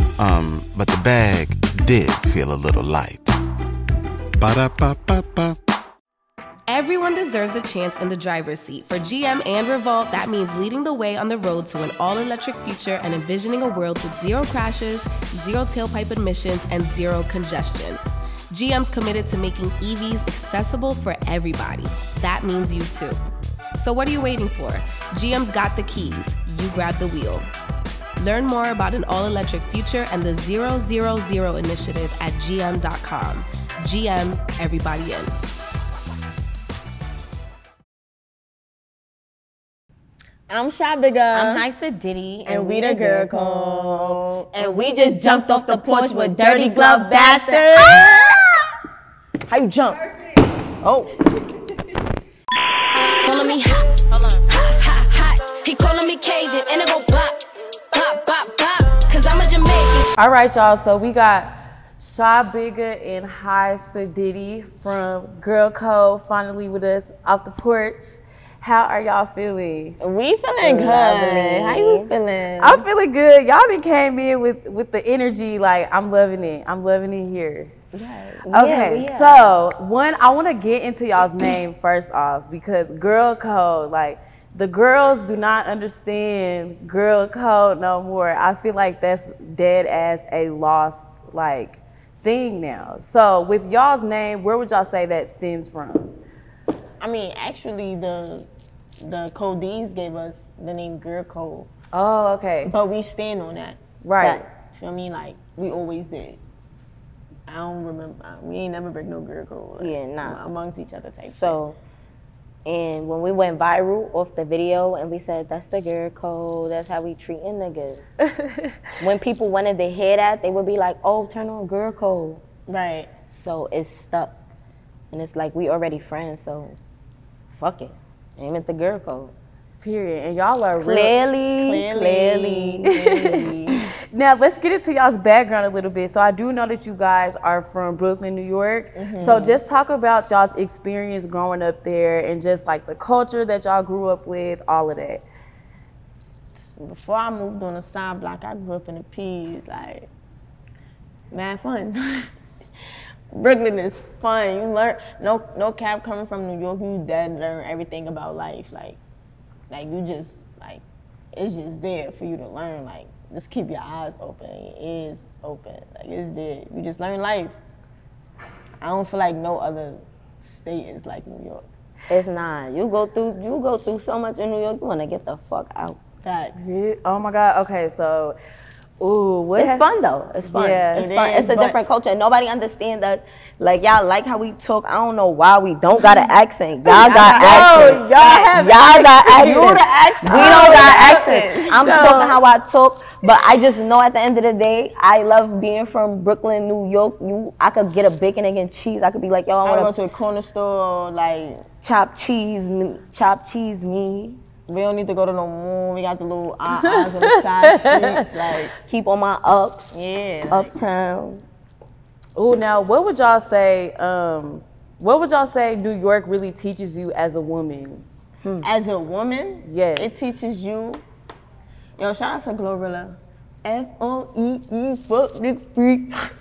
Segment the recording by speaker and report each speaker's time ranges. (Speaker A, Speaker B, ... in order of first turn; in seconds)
Speaker A: 0.2-3.2, 4.4-5.5
Speaker B: 6.7-23.2, 23.8-27.5, 28.2-35.3
Speaker C: 40.5-41.6, 42.5-48.5, 70.0-72.1, 77.9-78.5, 97.0-98.5, 99.0-101.7, 102.6-103.8, 104.7-106.4, 107.5-111.6, 122.7-123.1, 131.6-133.8, 138.9-139.6, 146.5-150.1, 151.3-152.3, 153.3-159.0, 159.7-160.8, 161.3-167.6, 168.8-171.6, 176.2-176.7, 180.9-181.8, 186.8-188.5, 189.2-192.2, 199.6-201.7, 204.7-208.7, 209.9-210.7, 218.6-221.0, 222.0-226.3
Speaker D: 41.3-48.4, 49.5-50.0, 50.8-51.1, 70.6-72.8, 77.9-79.6, 104.2-104.5, 109.8-110.4, 111.2-111.8, 112.7-118.1, 119.0-122.4, 123.3-124.3, 125.1-126.8, 127.6-129.3, 130.8-132.9, 172.1-176.0, 179.6-199.9, 201.8-204.4, 208.8-211.4, 218.4-218.7
Speaker E: 53.0-60.0
Speaker F: 60.2-70.0, 72.6-77.7, 78.5-96.1, 101.9-102.7, 104.0-104.4, 118.3-118.8, 129.8-131.1, 133.0-133.4, 134.1-145.2, 176.6-178.4, 179.0-179.8, 180.4-181.1, 186.9-192.3, 207.7-208.0, 212.4-218.0, 219.7-220.1